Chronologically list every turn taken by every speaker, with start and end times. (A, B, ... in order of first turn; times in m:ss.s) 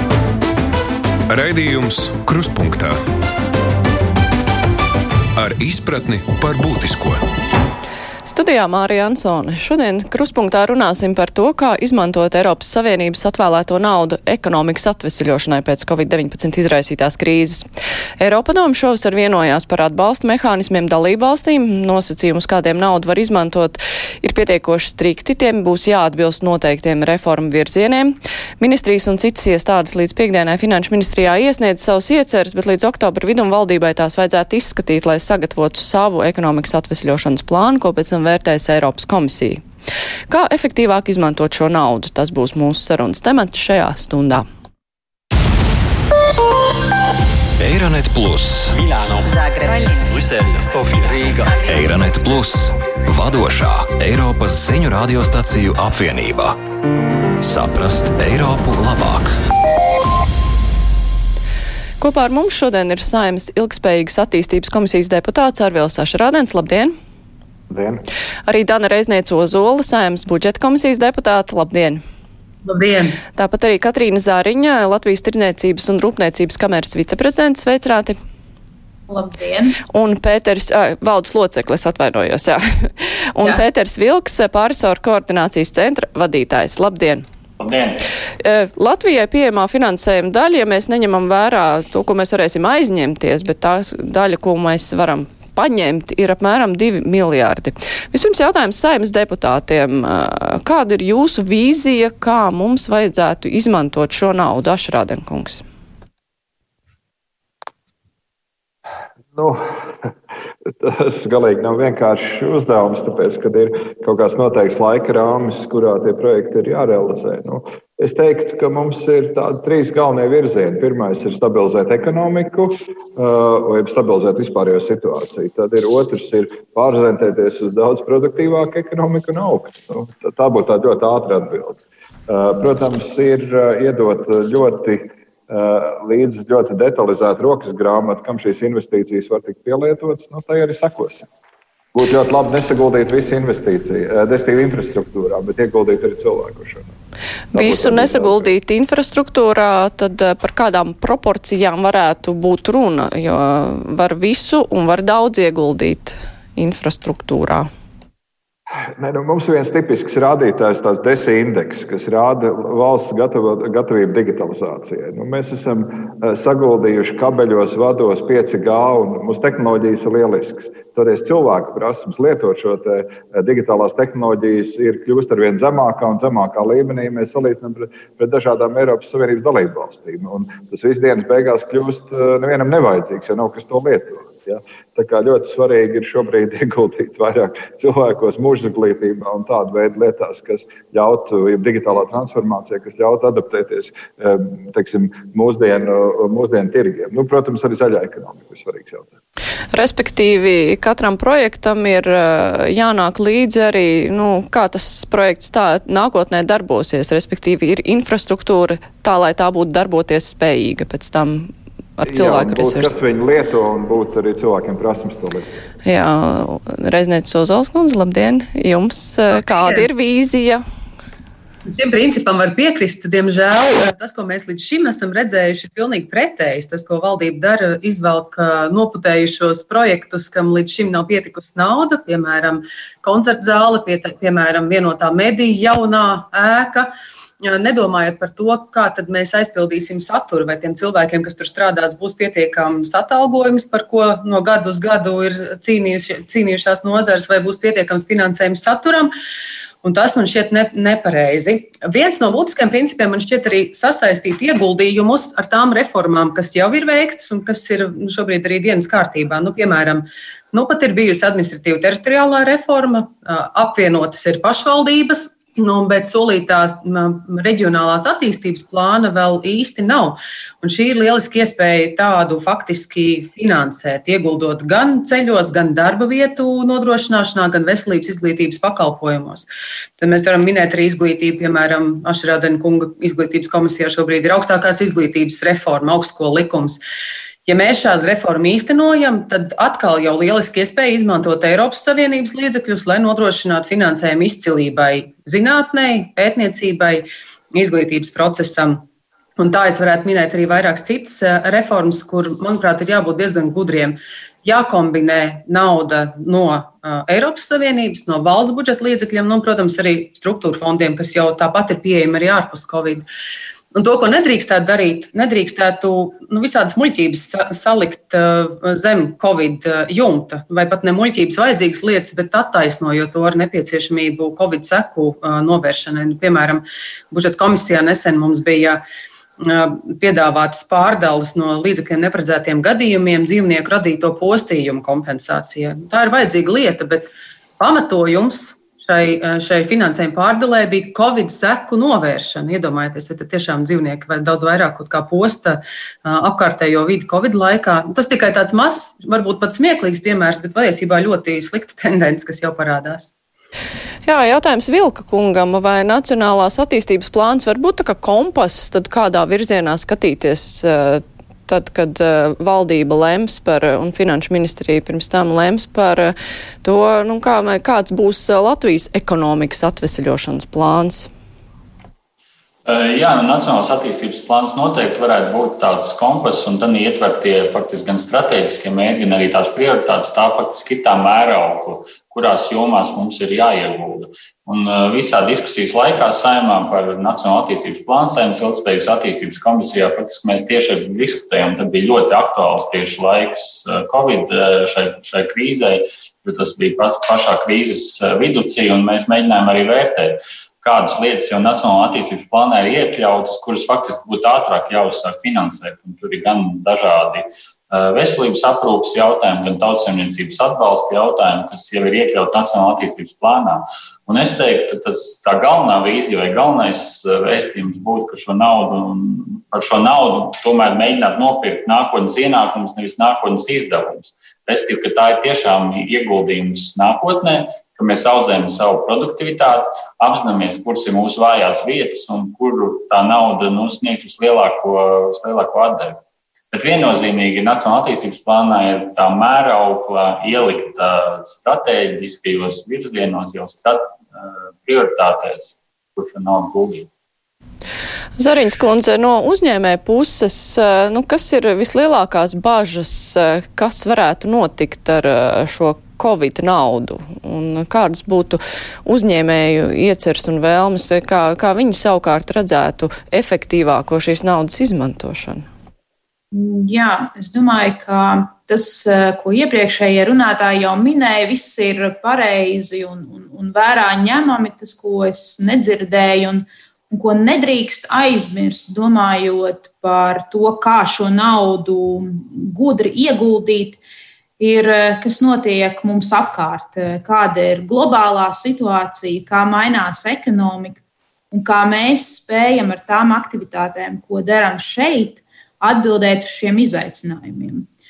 0:01.3-0:03.0 A
0:05.4-0:07.2 A
0:08.2-0:17.7 B
0:18.2-0:39.6 B
0:40.3-0:44.4 B
0:47.6-0:48.7 A
0:48.7-0:51.6 C
0:51.6-0:56.6 A
0:57.4-0:59.4 A
1:02.0-1:06.9 B
1:07.7-1:08.0 D
1:08.5-1:12.0 B
1:12.6-1:13.2 E
1:13.3-1:18.2 B
1:19.1-1:19.8 F
1:19.9-1:27.2 B
1:27.6-1:28.0 G
1:28.4-1:45.6 B
1:49.3-1:50.1 D
1:50.7-2:21.3 D
2:21.9-2:26.9 D
2:27.5-2:37.7 B
2:27.5-2:28.5 D
2:39.0-3:19.1 D
3:19.7-3:32.9 B
3:32.0-3:35.5 D
3:35.8-3:40.6 B
3:41.6-4:09.1 E
4:09.8-4:46.8 E
4:47.4-4:58.8 E
4:59.4-5:13.0 E
5:13.7-5:28.8 E
5:29.4-5:53.1 E
5:54.0-6:11.1 B
6:12.6-7:16.0 G
7:16.5-7:26.9 G
7:28.2-7:45.5 B
7:46.3-8:03.8 F
8:04.4-8:10.8 F
8:11.3-8:17.7 F